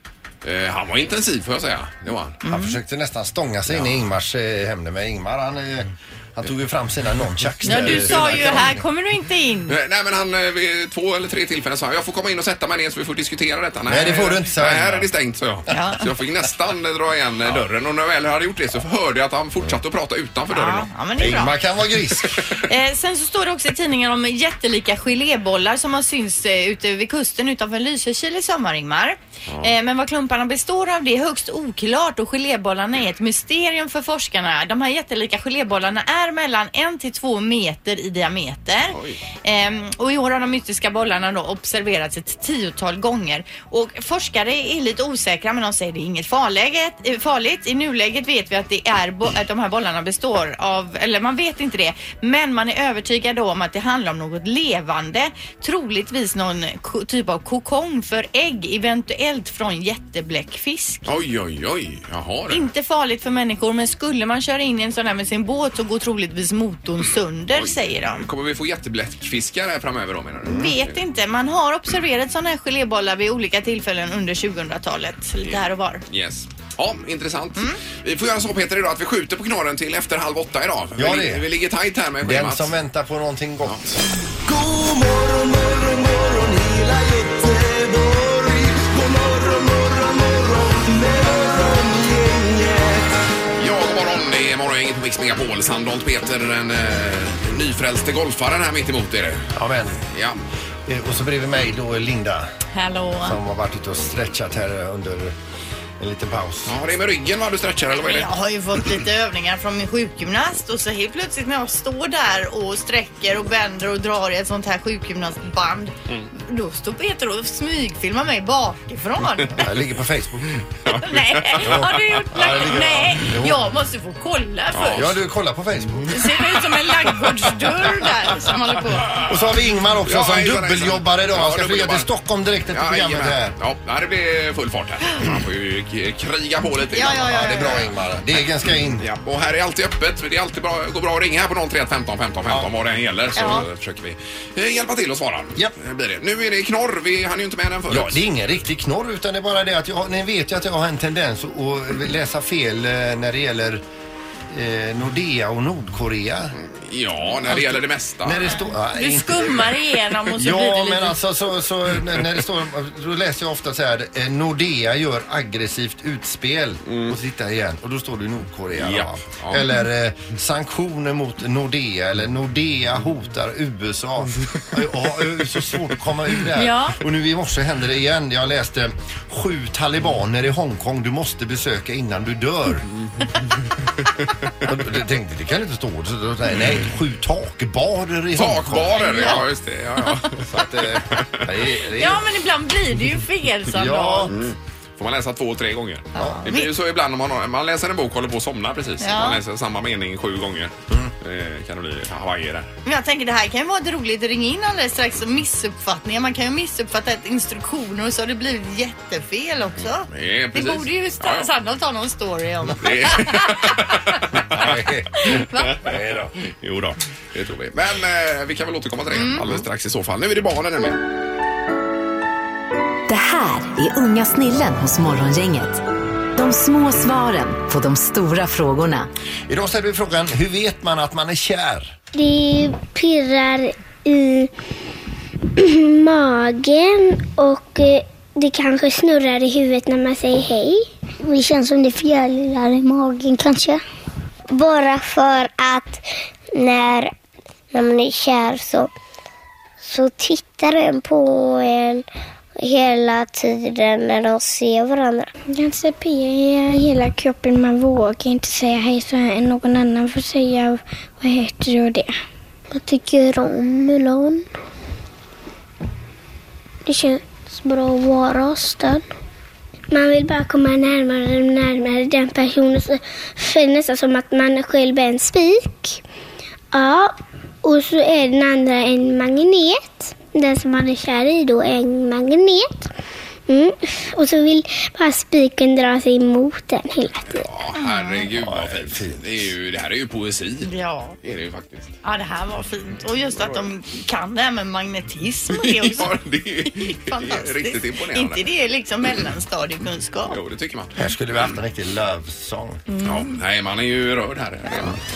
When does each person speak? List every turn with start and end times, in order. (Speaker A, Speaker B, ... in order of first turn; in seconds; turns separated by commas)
Speaker A: 0.4-2.4, Speaker B: 2.4-2.8, Speaker C: 2.5-8.8, Speaker A: 3.7-4.0, Speaker B: 7.6-9.8, Speaker A: 7.7-8.4, Speaker A: 9.7-20.9, Speaker C: 13.9-15.1, Speaker B: 15.7-16.0, Speaker B: 20.5-21.5, Speaker C: 21.2-22.4, Speaker B: 22.6-61.1, Speaker A: 29.5-29.7, Speaker A: 38.9-39.2, Speaker A: 61.0-62.7, Speaker B: 62.5-68.3, Speaker A: 67.5-71.0, Speaker B: 70.5-76.0, Speaker A: 75.4-82.7, Speaker C: 81.0-81.5, Speaker C: 82.2-83.9, Speaker A: 83.6-84.0, Speaker D: 84.5-93.2, Speaker A: 93.6-99.5, Speaker C: 99.5-100.0, Speaker A: 100.1-100.4, Speaker C: 100.8-102.5, Speaker B: 102.7-103.4, Speaker C: 103.2-105.3, Speaker C: 106.0-106.7, Speaker A: 106.7-108.3, Speaker B: 107.9-119.5, Speaker C: 119.6-120.5, Speaker A: 120.8-121.9, Speaker B: 121.0-125.1, Speaker C: 121.6-123.6, Speaker A: 124.7-125.1, Speaker C: 124.9-126.4, Speaker B: 126.1-129.2, Speaker C: 129.1-133.5, Speaker A: 130.1-132.1, Speaker A: 132.7-137.9, Speaker B: 136.9-137.8, Speaker C: 137.2-139.1, Speaker A: 139.0-148.2, Speaker B: 143.3-143.6, Speaker C: 147.9-153.8, Speaker C: 154.5-156.6, Speaker A: 156.6-158.5, Speaker C: 157.4-159.8, Speaker B: 158.9-161.2, Speaker C: 160.3-182.8, Speaker A: 166.8-167.1, Speaker A: 168.8-169.6, Speaker B: 176.6-177.0, Speaker C: 184.6-189.4, Speaker A: 188.3-191.5, Speaker B: 189.0-189.4, Speaker C: 190.4-192.2, Speaker B: 191.9-194.3, Speaker C: 193.7-194.3, Speaker A: 194.3-202.7, Speaker C: 196.2-196.4, Speaker B: 196.2-196.7, Speaker B: 199.0-199.4, Speaker B: 202.8-213.6, Speaker A: 210.1-211.5, Speaker A: 212.8-214.9, Speaker C: 214.5-215.1, Speaker B: 215.1-215.8, Speaker A: 215.6-215.9, Speaker C: 215.8-216.3, Speaker A: 216.5-221.0, Speaker B: 219.1-219.5, Speaker E: 223.1-225.8, Speaker E: 226.3-229.1, Speaker C: 229.5-231.9, Speaker F: 232.1-234.5, Speaker F: 235.6-243.8, Speaker F: 244.5-247.1, Speaker F: 247.7-248.9, Speaker F: 249.8-252.1, Speaker F: 252.6-262.1, Speaker F: 262.7-264.4, Speaker F: 266.9-269.1, Speaker F: 269.9-276.0, Speaker F: 276.7-282.9, Speaker F: 283.5-287.5, Speaker A: 287.3-290.7, Speaker B: 287.8-288.3, Speaker C: 288.4-289.5, Speaker B: 290.6-291.2, Speaker A: 291.2-291.9, Speaker B: 292.0-296.1, Speaker A: 295.5-298.4, Speaker B: 296.6-300.3, Speaker A: 300.2-301.5, Speaker C: 300.9-302.8, Speaker B: 302.9-303.3, Speaker A: 303.0-305.0